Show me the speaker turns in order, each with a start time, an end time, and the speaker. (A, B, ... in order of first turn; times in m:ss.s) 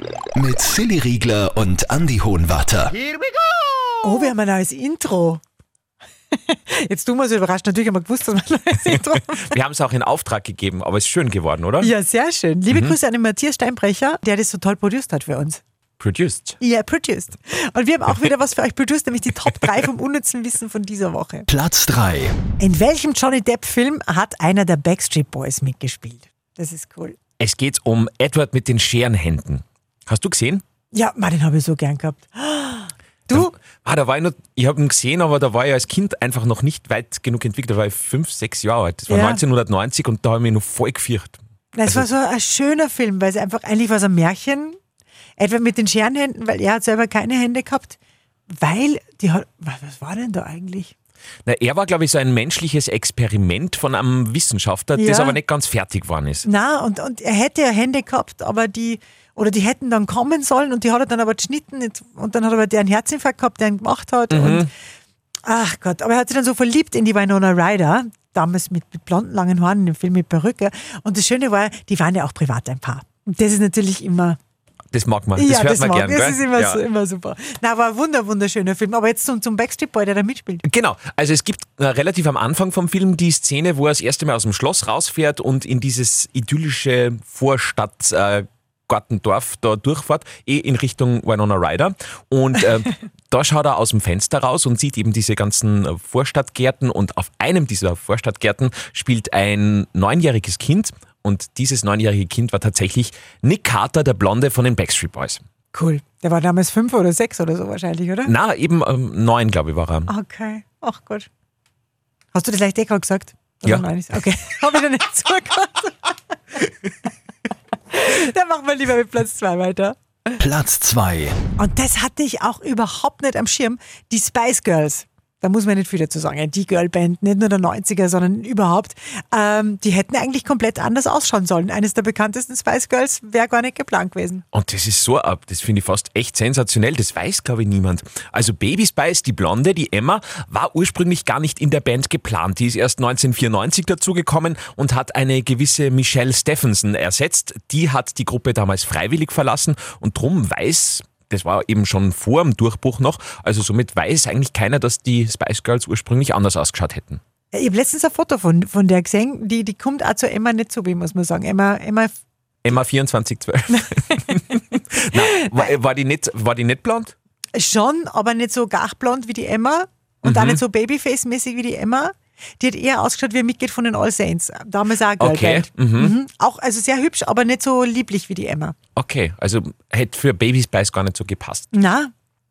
0:00.4-0:03.0 A
0:04.0-0:05.4 B
0:06.3-0:09.5 B
0:08.9-0:11.9 C
0:11.8-0:15.6 B
0:12.7-0:13.0 C
0:16.0-0:16.6 C
0:16.6-0:21.5 B
0:21.5-0:22.4 A
0:22.6-0:27.2 B
0:27.4-0:30.6 C
0:30.9-0:33.5 B
0:33.3-0:42.1 C
0:39.1-0:39.4 B
0:41.7-0:44.8 B
0:45.4-0:48.0 B
0:48.6-0:50.9 B
0:51.5-0:56.5 C
0:55.0-0:55.4 B
0:56.4-1:04.7 B
1:04.3-1:04.7 C
1:05.5-1:14.4 B
1:14.9-1:16.8 C
1:15.4-1:20.6 B
1:20.6-1:45.4 C
1:45.7-1:48.4 B
1:48.2-1:50.1 C
1:50.1-1:51.3 B
1:52.3-1:56.1 B
1:57.9-2:00.4 B
2:00.4-2:01.4 A
2:01.6-2:14.4 B
2:14.5-2:37.2 C
2:37.5-2:42.1 B
2:42.6-2:47.1 C
2:45.4-2:45.6 B
2:47.6-2:58.8 B
2:50.2-2:50.6 C
2:55.2-2:56.2 C
2:59.0-3:01.7 C
3:01.7-3:02.1 B